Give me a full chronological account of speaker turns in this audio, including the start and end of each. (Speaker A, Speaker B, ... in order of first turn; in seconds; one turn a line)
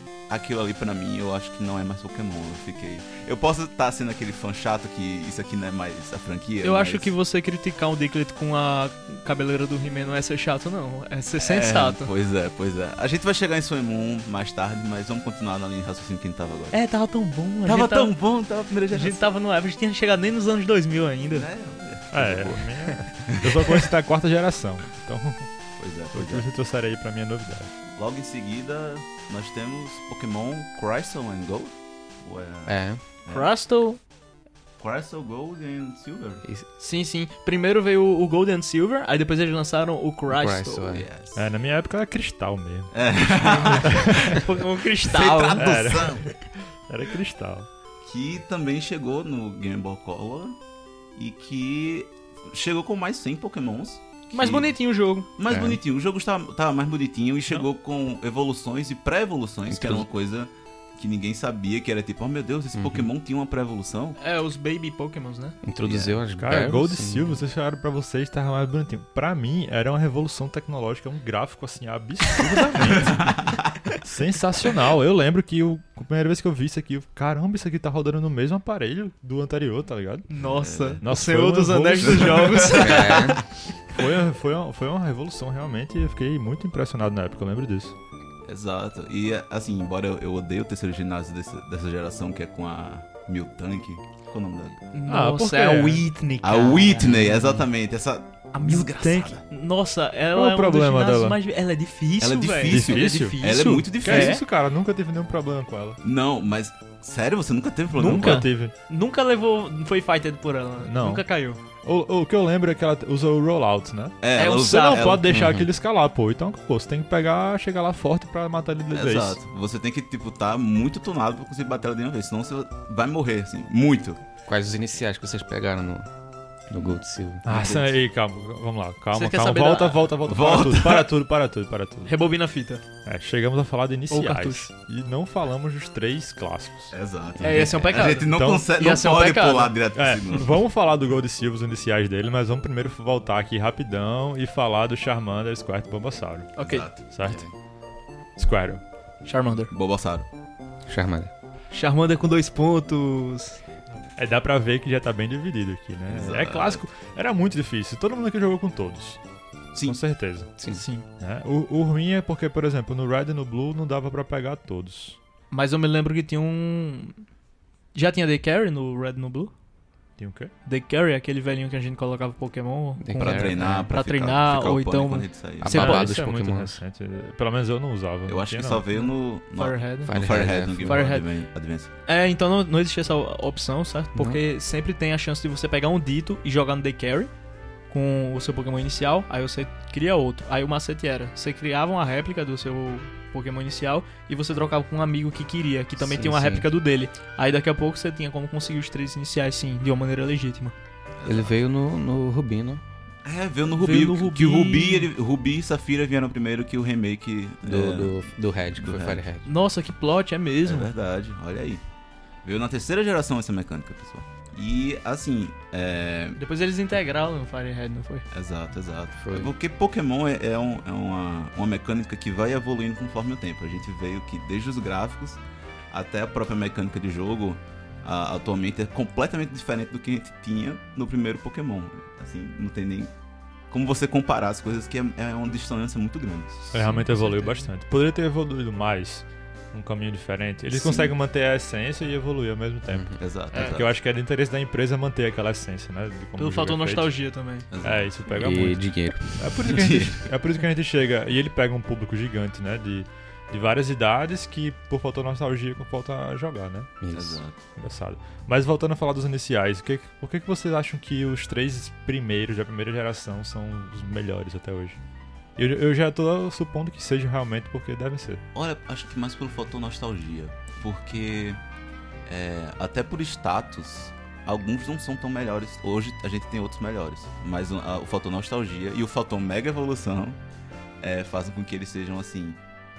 Speaker A: 0.3-7.1
Speaker B: 6.6-12.1
Speaker A: 11.4-16.8
Speaker B: 16.7-18.1
Speaker A: 17.6-19.2
Speaker B: 18.9-21.5
Speaker A: 21.3-23.8
Speaker C: 22.1-25.5
Speaker A: 25.8-26.5
Speaker C: 26.1-27.7
Speaker A: 27.9-33.5
Speaker D: 32.7-33.0
Speaker B: 33.3-34.0
Speaker A: 34.8-36.4
Speaker B: 36.8-41.0
Speaker D: 40.3-41.1
Speaker A: 40.9-41.5
Speaker C: 41.4-42.9
Speaker A: 42.9-44.4
Speaker B: 43.3-46.0
Speaker C: 43.6-44.4
Speaker A: 45.0-46.2
Speaker C: 45.6-47.7
Speaker A: 48.0-50.6
Speaker A: 51.2-54.7
Speaker B: 54.3-55.3
Speaker A: 55.4-64.2
Speaker D: 55.5-55.8
Speaker D: 59.7-60.1
Speaker D: 62.7-63.1
Speaker B: 64.2-65.6
Speaker D: 65.6-67.4
Speaker A: 65.8-66.2
Speaker C: 66.4-73.4
Speaker A: 72.8-73.7
Speaker C: 74.0-80.3
Speaker B: 80.3-83.5
Speaker A: 80.5-81.0
Speaker C: 81.0-82.7
Speaker A: 82.0-83.0
Speaker D: 82.7-83.4
Speaker C: 83.9-88.0
Speaker A: 88.5-94.9
Speaker B: 94.9-97.6
Speaker C: 95.1-96.1
Speaker A: 96.4-99.4
Speaker B: 98.5-104.4
Speaker C: 100.3-101.4
Speaker A: 102.2-104.4
Speaker C: 102.7-106.0
Speaker A: 106.0-108.5
Speaker C: 107.9-108.7
Speaker B: 108.0-111.6
Speaker C: 110.8-111.2
Speaker C: 111.8-119.4
Speaker A: 114.2-115.4
Speaker B: 114.4-115.2
Speaker D: 115.3-115.7
Speaker A: 118.9-124.2
Speaker D: 124.5-126.1
Speaker D: 126.7-127.5
Speaker A: 126.8-128.0
Speaker C: 127.5-132.1
Speaker B: 129.1-130.1
Speaker A: 130.2-131.1
Speaker B: 132.1-132.8
Speaker C: 133.1-137.0
Speaker B: 134.1-134.7
Speaker A: 136.9-140.6
Speaker B: 137.4-139.7
Speaker C: 138.2-138.7
Speaker C: 139.9-146.5
Speaker B: 146.6-146.9
Speaker A: 146.6-147.0
Speaker C: 147.1-147.5
Speaker D: 147.2-147.5
Speaker C: 148.4-148.8
Speaker B: 149.2-149.7
Speaker A: 149.7-150.3
Speaker D: 150.9-151.3
Speaker B: 151.7-153.6
Speaker C: 154.2-159.2
Speaker A: 156.1-156.8
Speaker A: 159.7-160.0
Speaker C: 159.8-160.5
Speaker D: 160.6-160.8
Speaker B: 160.7-161.1
Speaker C: 161.2-165.2
Speaker B: 165.5-167.2
Speaker B: 167.9-169.5
Speaker C: 170.2-170.5
Speaker B: 170.7-176.2
Speaker D: 173.0-173.9
Speaker A: 173.2-175.8
Speaker D: 175.6-176.8
Speaker C: 175.7-178.8
Speaker A: 178.3-181.9
Speaker B: 178.9-181.3
Speaker D: 180.1-181.0
Speaker B: 182.1-187.3
Speaker D: 184.2-184.4
Speaker B: 187.9-200.7
Speaker D: 196.0-196.7
Speaker A: 201.2-201.6
Speaker D: 201.2-202.8
Speaker A: 203.2-208.2
Speaker B: 203.8-205.1
Speaker D: 207.6-209.5
Speaker A: 208.8-209.2
Speaker B: 209.4-210.9
Speaker A: 210.7-211.8
Speaker A: 212.4-216.4
Speaker B: 216.4-218.2
Speaker A: 218.3-233.1
Speaker D: 219.2-219.5
Speaker A: 233.7-236.7
Speaker B: 236.7-237.7
Speaker C: 236.7-247.1
Speaker A: 240.7-241.1
Speaker D: 242.9-243.2
Speaker A: 243.2-243.9
Speaker B: 243.5-243.8
Speaker B: 246.4-247.7
Speaker A: 247.7-248.2
Speaker C: 247.8-256.9
Speaker D: 248.4-249.7
Speaker A: 249.7-250.3
Speaker D: 257.0-257.4
Speaker A: 257.1-257.6
Speaker C: 257.8-265.0
Speaker C: 265.6-268.4
Speaker A: 268.6-271.6
Speaker A: 272.3-280.4
Speaker A: 281.0-282.6